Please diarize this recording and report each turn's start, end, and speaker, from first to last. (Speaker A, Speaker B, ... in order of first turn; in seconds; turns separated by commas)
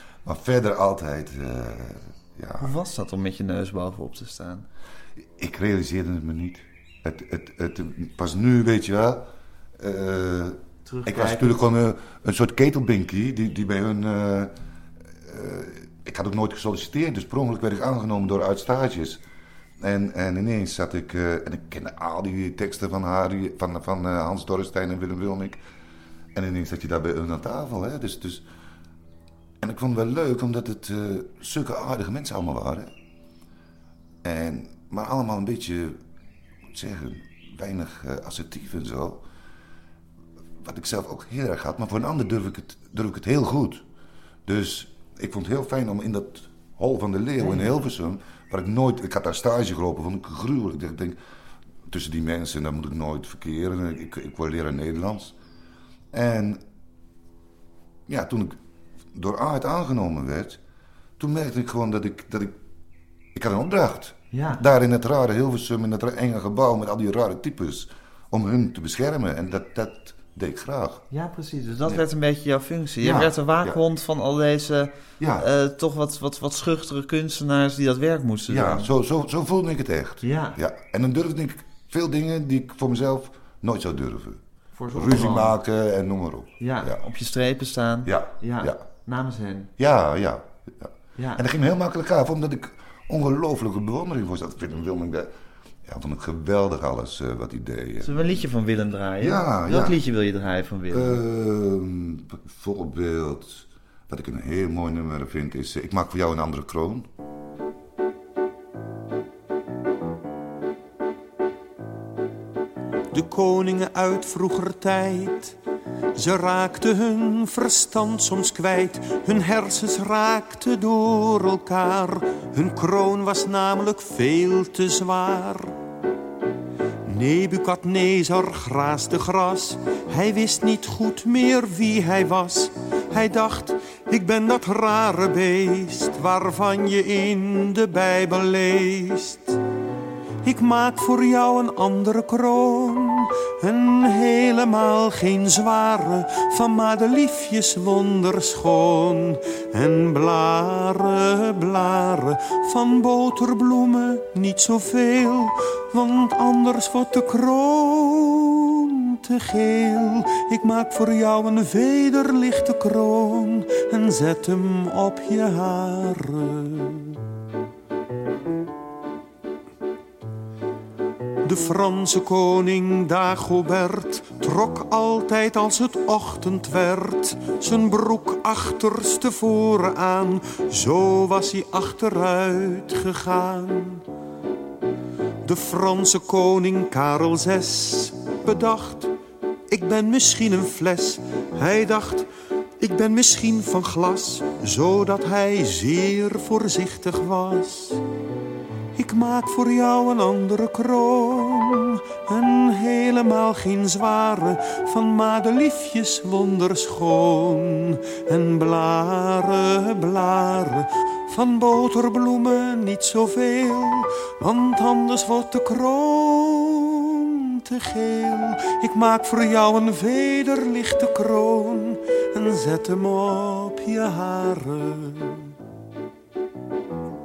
Speaker A: 0.2-2.8, Speaker B: 2.6-4.7, Speaker A: 5.4-14.5, Speaker B: 10.8-11.6, Speaker A: 15.2-19.2, Speaker A: 19.8-25.6, Speaker A: 26.3-28.4, Speaker A: 29.6-32.9, Speaker A: 34.2-36.0, Speaker A: 36.7-39.2, Speaker A: 40.6-43.8, Speaker A: 44.5-51.2, Speaker B: 47.4-47.7, Speaker A: 51.9-55.3, Speaker A: 56.1-56.6, Speaker A: 58.1-58.6, Speaker A: 59.1-60.6, Speaker A: 61.2-62.6, Speaker A: 63.3-71.0, Speaker B: 64.3-64.6, Speaker B: 71.1-78.9, Speaker A: 73.0-73.8, Speaker A: 75.2-75.5, Speaker A: 78.5-84.4, Speaker B: 80.2-80.6, Speaker B: 84.8-85.5, Speaker A: 84.9-87.0, Speaker B: 86.6-89.7, Speaker A: 88.0-88.8, Speaker A: 89.8-95.3, Speaker B: 91.2-91.4, Speaker A: 95.8-98.3, Speaker B: 98.0-101.2, Speaker A: 99.2-100.0, Speaker A: 100.9-107.1, Speaker C: 113.1-115.5, Speaker C: 116.2-125.7, Speaker C: 127.0-139.6, Speaker C: 140.4-167.2, Speaker C: 171.4-184.0, Speaker C: 185.4-189.1, Speaker C: 189.7-192.3, Speaker C: 192.8-198.0, Speaker C: 198.9-225.5